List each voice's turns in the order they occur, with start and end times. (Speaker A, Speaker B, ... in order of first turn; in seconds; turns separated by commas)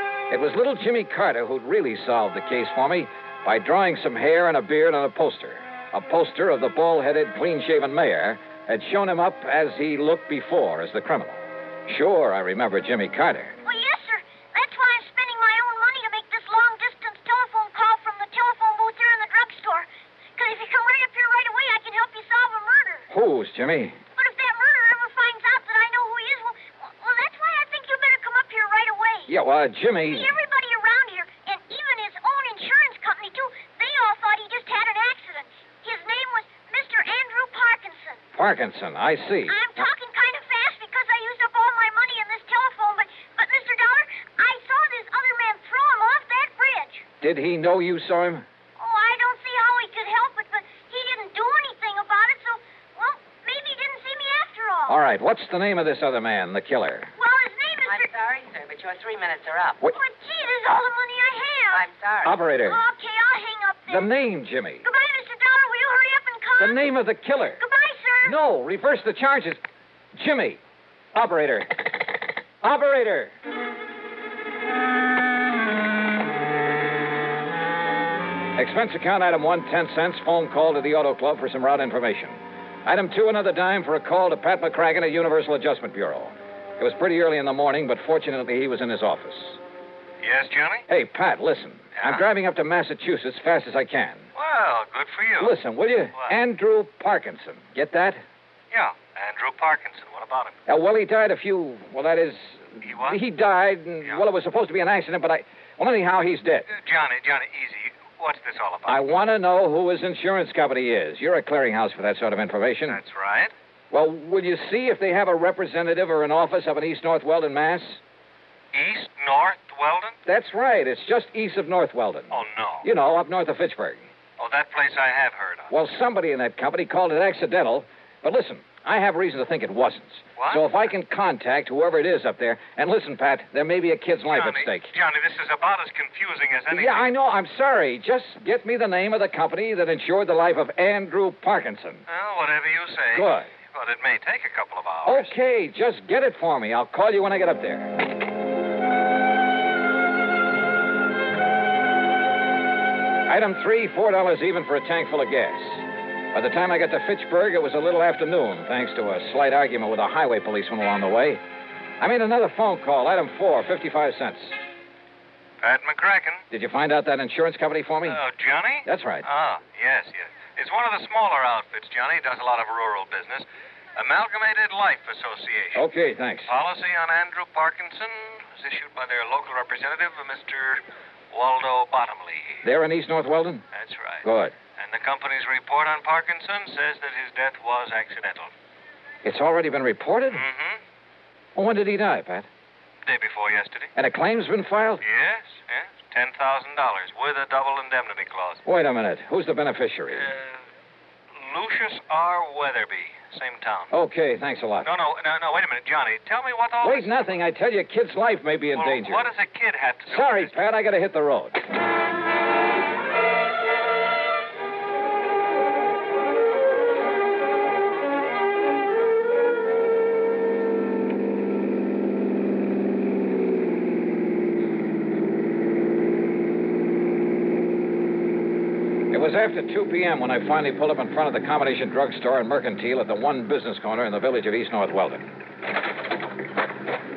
Speaker A: 0.3-13.6, Speaker B: 13.7-19.9, Speaker B: 20.4-23.1, Speaker A: 23.1-24.0, Speaker B: 24.2-29.3, Speaker A: 29.3-30.4, Speaker B: 30.1-38.2, Speaker A: 38.4-39.9, Speaker B: 39.5-47.0, Speaker A: 47.2-48.5, Speaker B: 48.8-55.0, Speaker A: 54.9-57.1, Speaker B: 57.2-58.1, Speaker C: 57.9-59.8, Speaker B: 59.9-61.9, Speaker C: 61.7-62.3, Speaker A: 62.2-62.8, Speaker B: 62.5-64.1, Speaker A: 63.9-64.8, Speaker B: 64.8-66.8, Speaker A: 66.6-67.6, Speaker B: 67.6-68.3, Speaker A: 68.2-69.6, Speaker A: 70.1-70.6, Speaker A: 71.1-72.1, Speaker A: 72.6-73.3, Speaker A: 78.6-89.6, Speaker D: 90.2-90.8, Speaker A: 90.9-94.3, Speaker D: 94.3-95.5, Speaker A: 95.4-98.2, Speaker D: 98.7-100.6, Speaker A: 100.7-106.7, Speaker D: 102.8-103.2, Speaker D: 106.7-109.0, Speaker A: 108.9-113.0, Speaker D: 112.9-113.5, Speaker A: 113.9-118.0, Speaker D: 118.7-120.2, Speaker A: 120.3-124.1, Speaker D: 122.3-122.9, Speaker D: 124.4-125.7, Speaker A: 125.7-134.9, Speaker D: 130.4-130.7, Speaker D: 134.3-137.0, Speaker A: 136.7-142.1, Speaker D: 142.1-145.3, Speaker A: 143.1-143.5, Speaker A: 145.1-147.9, Speaker A: 153.3-161.4, Speaker A: 162.0-164.6, Speaker D: 165.6-166.4, Speaker A: 166.5-168.2, Speaker D: 168.1-175.8, Speaker A: 168.8-169.3, Speaker A: 175.7-176.5, Speaker D: 176.5-182.7, Speaker A: 182.6-183.7, Speaker D: 183.7-184.2, Speaker A: 184.2-184.5, Speaker D: 184.8-188.5, Speaker A: 189.2-190.4, Speaker D: 190.3-190.8, Speaker A: 191.6-192.5, Speaker D: 193.1-193.9, Speaker A: 193.9-195.0, Speaker D: 195.0-198.6, Speaker A: 198.7-200.3, Speaker D: 200.2-200.5, Speaker D: 201.4-203.9, Speaker A: 203.9-204.9, Speaker D: 204.8-207.1, Speaker A: 206.8-209.3, Speaker D: 208.8-210.6, Speaker A: 210.1-211.6, Speaker A: 229.1-235.3